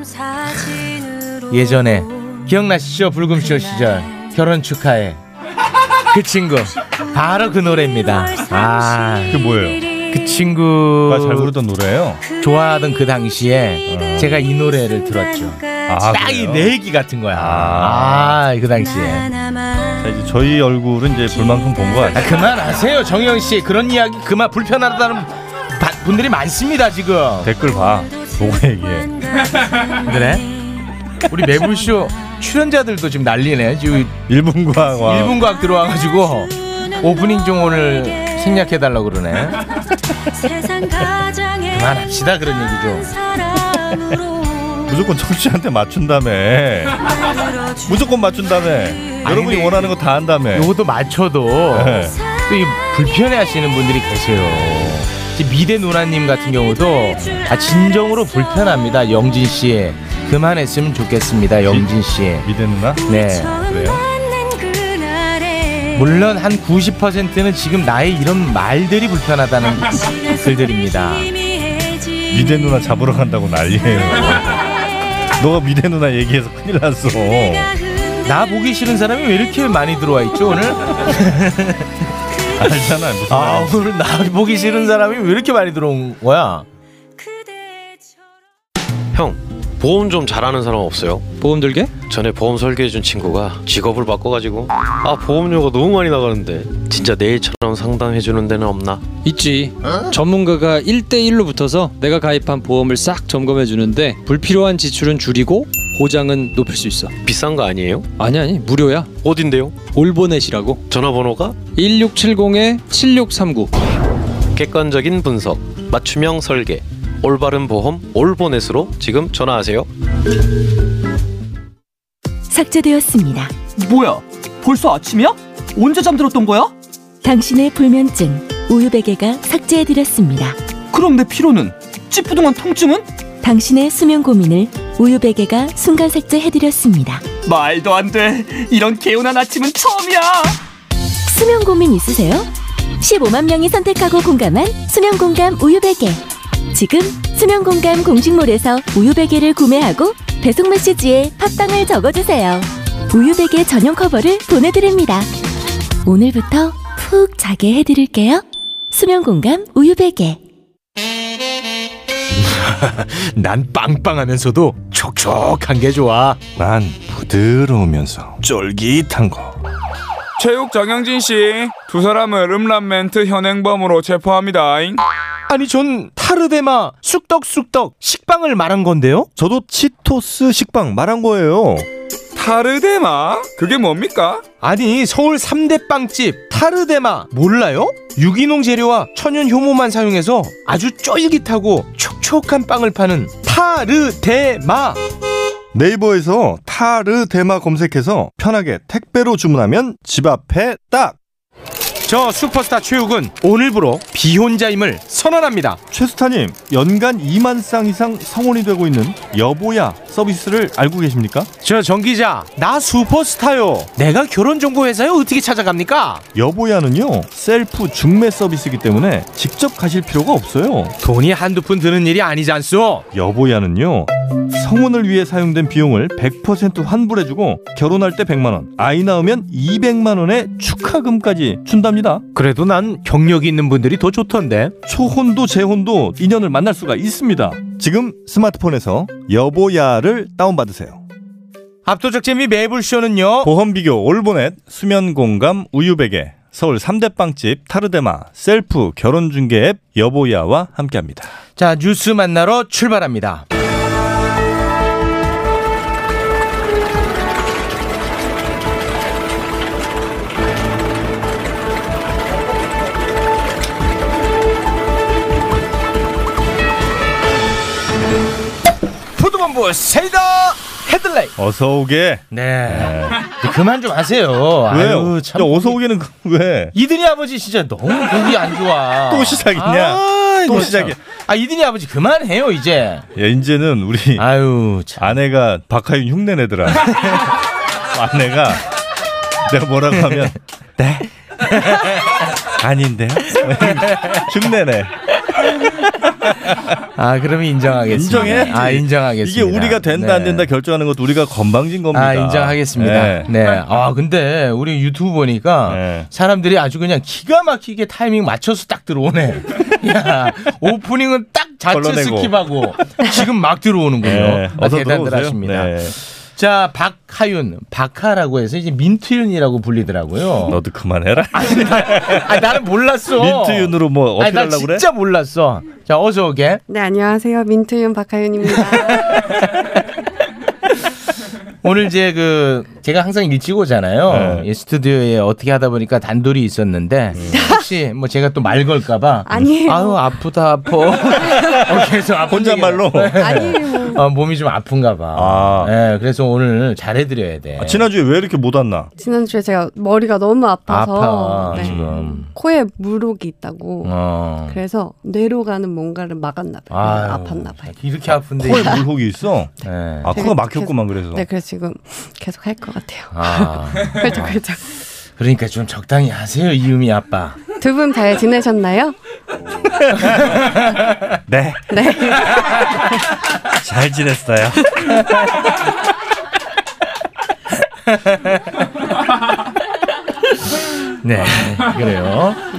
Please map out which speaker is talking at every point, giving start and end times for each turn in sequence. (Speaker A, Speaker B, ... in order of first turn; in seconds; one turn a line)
Speaker A: 0.5-5.2
Speaker A: 6.1-9.4
Speaker B: 9.3-9.9
Speaker A: 10.1-11.5
Speaker B: 11.1-12.3
Speaker A: 12.3-19.3
Speaker B: 13.9-14.3
Speaker B: 15.8-16.8
Speaker B: 17.3-18.4
Speaker B: 20.0-22.3
Speaker A: 22.1-27.5
Speaker B: 27.4-29.2
Speaker A: 30.0-30.5
Speaker A: 31.3-34.2
Speaker B: 34.3-35.4
Speaker A: 35.0-39.6
Speaker A: 41.6-43.3
Speaker B: 44.9-47.0
Speaker B: 47.7-50.7
Speaker A: 49.2-49.9
Speaker A: 50.5-62.5
Speaker B: 51.7-52.2
Speaker B: 57.2-57.5
Speaker B: 61.6-61.9
Speaker B: 62.4-64.1
Speaker A: 63.1-63.7
Speaker A: 65.9-71.4
Speaker B: 72.3-77.8
Speaker A: 78.2-81.9
Speaker B: 82.5-83.9
Speaker A: 83.3-86.7
Speaker C: 89.1-91.3
Speaker D: 91.4-91.9
Speaker C: 92.0-99.0
Speaker D: 99.2-107.2
Speaker C: 107.2-108.1
Speaker D: 108.2-109.2
Speaker C: 109.2-109.9
Speaker D: 109.8-110.8
Speaker C: 110.9-111.6
Speaker D: 111.7-113.7
Speaker C: 114.5-119.9
Speaker E: 122.5-123.5
Speaker F: 123.8-126.7
Speaker E: 127.2-130.6
Speaker F: 130.9-133.1
Speaker E: 133.4-137.3
Speaker F: 137.4-140.6
Speaker E: 141.3-142.5
Speaker E: 143.0-146.2
Speaker E: 146.7-155.3
Speaker E: 156.1-160.4
Speaker A: 162.4-166.6
Speaker B: 166.6-169.6
Speaker A: 167.9-168.4
Speaker G: 170.4-175.0
Speaker A: 175.5-179.3
Speaker B: 179.4-181.9
Speaker G: 182.3-184.4
Speaker A: 184.6-195.0
Speaker B: 195.7-201.2
Speaker A: 202.0-205.8
Speaker B: 205.9-211.5
Speaker A: 211.6-216.2
Speaker B: 216.3-221.0
Speaker A: 221.0-223.1
Speaker B: 223.1-232.2
Speaker A: 232.3-234.8
Speaker B: 234.8-241.0
Speaker A: 241.8-243.5
Speaker B: 243.4-251.3
Speaker A: 251.6-253.5
Speaker A: 269.2-271.3
Speaker B: 271.4-273.2
Speaker A: 272.3-275.8
Speaker B: 274.7-276.7
Speaker A: 276.7-283.1
Speaker B: 279.1-281.0
Speaker B: 283.1-284.3
Speaker A: 284.2-285.2
Speaker B: 285.0-287.3
Speaker B: 287.9-288.6
Speaker B: 289.4-291.1
Speaker A: 291.5-292.1
Speaker B: 292.6-294.9
Speaker A: 293.7-294.2
Speaker B: 296.2-296.7
Speaker A: 297.0-300.5
Speaker B: 297.9-303.3
Speaker A: 301.9-320.6
Speaker B: 305.7-306.1
Speaker B: 311.7-313.0
Speaker B: 314.0-316.0
Speaker B: 320.4-322.6
Speaker A: 321.3-326.6
Speaker B: 323.1-324.9
Speaker H: 326.7-329.1
Speaker A: 329.0-329.4
Speaker A: 331.6-347.9
Speaker B: 334.1-334.5
Speaker B: 337.1-337.6
Speaker H: 337.3-337.6
Speaker H: 339.3-340.0
Speaker B: 341.3-343.2
Speaker H: 343.2-344.0
Speaker B: 345.1-345.7
Speaker B: 347.6-348.9
Speaker H: 349.0-353.9
Speaker A: 350.7-352.3
Speaker B: 351.5-352.0
Speaker A: 353.8-354.6
Speaker H: 354.5-357.7
Speaker A: 356.7-358.8
Speaker B: 358.1-361.2
Speaker A: 359.6-360.2
Speaker H: 360.1-364.6
Speaker A: 363.1-364.1
Speaker B: 364.0-364.4
Speaker A: 365.2-367.4
Speaker H: 367.6-368.9
Speaker B: 369.8-370.4
Speaker A: 370.1-370.9
Speaker B: 371.3-372.2
Speaker H: 371.7-372.5
Speaker B: 373.5-375.0
Speaker A: 377.9-378.5
Speaker A: 381.0-382.4